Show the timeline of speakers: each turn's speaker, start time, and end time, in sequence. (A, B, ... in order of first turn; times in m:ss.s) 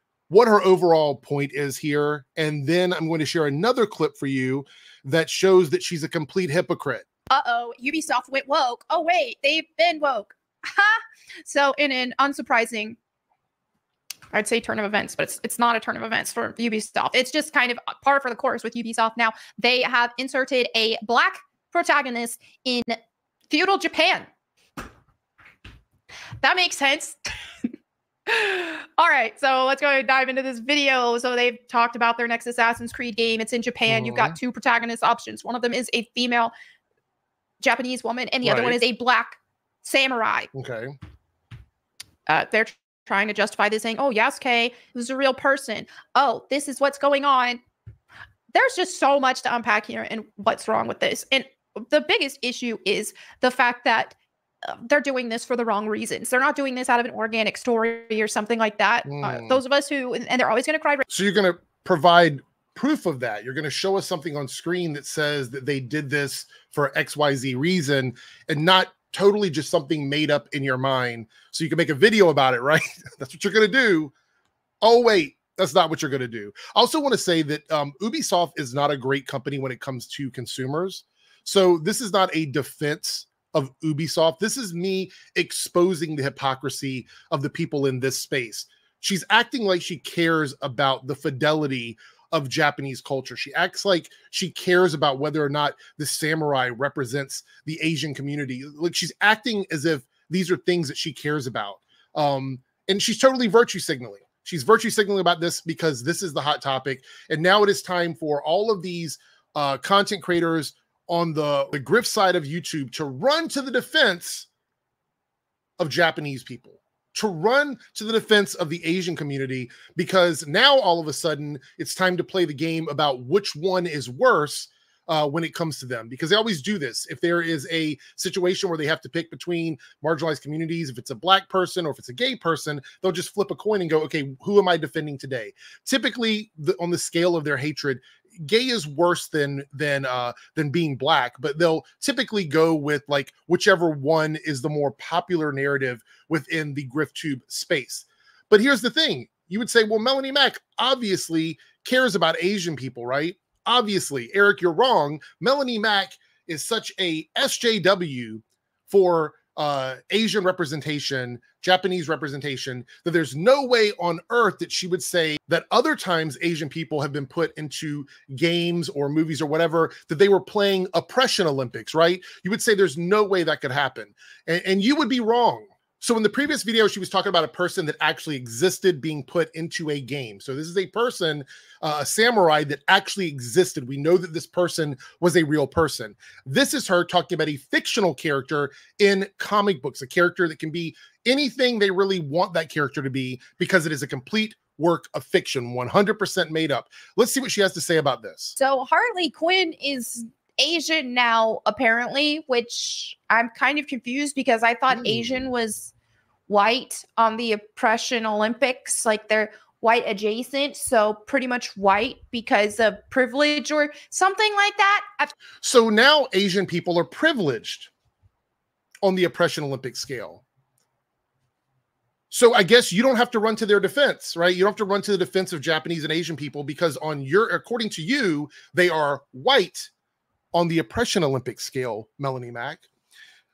0:00.3-0:07.0 A
0:07.3-0:13.0 B
0:14.3-0:23.0 B
0:23.5-0:24.3 B
0:26.4-0:27.6 B
0:28.3-0:36.5 B
0:33.9-0:34.4 A
0:37.6-0:40.5 B
0:38.4-0:38.8 A
0:40.5-0:40.9 A
0:42.3-0:47.6 B
0:48.5-1:01.0 B
0:59.0-0:59.6 A
1:01.1-1:14.1 A
1:14.8-1:54.5 A
1:55.8-3:18.6 A
3:18.6-3:25.9 B
3:24.9-3:25.4 A
3:26.5-3:35.3 B
3:35.6-3:37.9 A
3:39.0-3:40.4 A
3:42.3-3:49.9 A
3:50.5-3:52.8 A